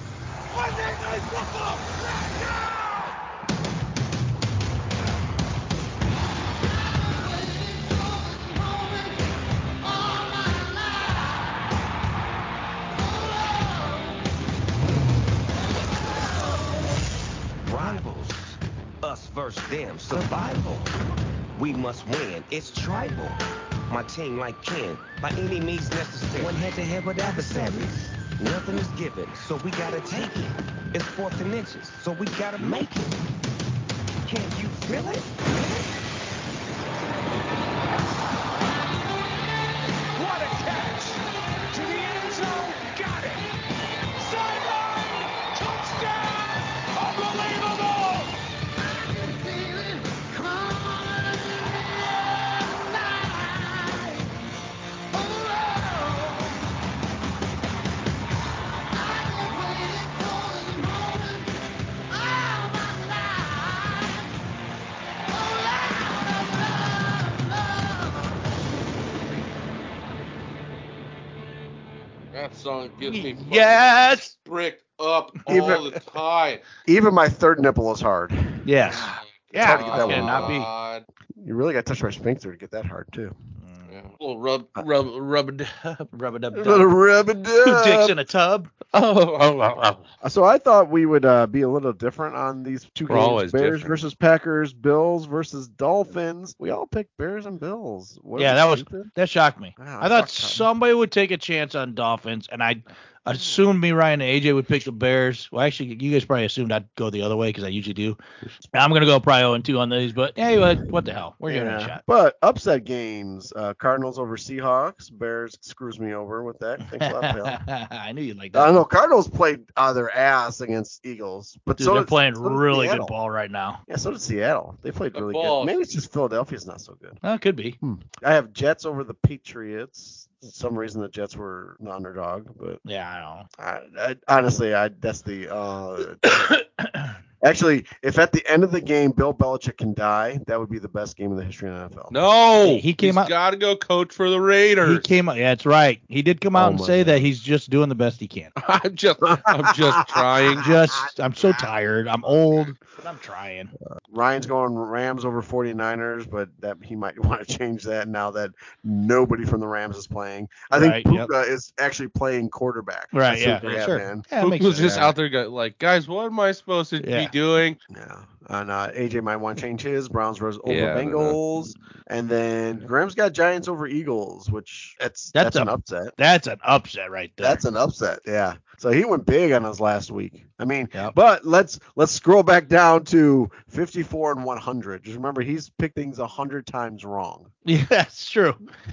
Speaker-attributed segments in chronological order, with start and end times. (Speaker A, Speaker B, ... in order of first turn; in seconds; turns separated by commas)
Speaker A: 0.8-1.6, Speaker B: 17.6-20.9, Speaker B: 21.6-33.2, Speaker B: 34.2-35.3, Speaker C: 40.2-41.0, Speaker C: 41.7-43.3, Speaker C: 45.6-46.0, Speaker C: 47.0-47.9, Speaker D: 72.3-76.6, Speaker A: 73.0-74.3, Speaker E: 75.5-75.8, Speaker E: 76.9-78.6, Speaker A: 78.7-80.7, Speaker D: 79.4-81.0, Speaker E: 79.6-80.5, Speaker E: 81.4-83.3, Speaker A: 83.6-83.9, Speaker D: 83.9-86.1, Speaker A: 86.1-87.0, Speaker E: 86.5-88.2, Speaker A: 87.6-88.7, Speaker D: 88.9-90.0, Speaker E: 90.2-99.1, Speaker D: 93.1-94.0, Speaker A: 98.3-108.2, Speaker E: 99.8-100.7, Speaker E: 103.3-103.6, Speaker A: 108.7-112.0, Speaker E: 111.5-117.6, Speaker A: 116.8-118.8, Speaker E: 118.5-123.1, Speaker A: 121.8-123.8, Speaker E: 123.9-127.2, Speaker D: 125.1-125.8, Speaker A: 127.2-127.8, Speaker E: 127.8-132.8, Speaker A: 132.8-133.5, Speaker E: 133.6-136.5, Speaker A: 136.3-137.1, Speaker E: 137.4-142.2, Speaker D: 142.1-145.1, Speaker A: 142.6-143.3, Speaker A: 144.8-148.5, Speaker E: 146.5-147.3, Speaker D: 148.6-150.7, Speaker E: 150.1-150.7, Speaker A: 150.6-153.7, Speaker E: 151.4-151.7, Speaker E: 154.1-164.3, Speaker A: 160.7-161.3, Speaker A: 163.1-165.1, Speaker D: 164.4-167.8, Speaker A: 167.0-167.3, Speaker E: 167.9-176.1, Speaker D: 170.7-171.4, Speaker A: 175.3-177.6, Speaker E: 177.4-187.5, Speaker A: 187.7-188.6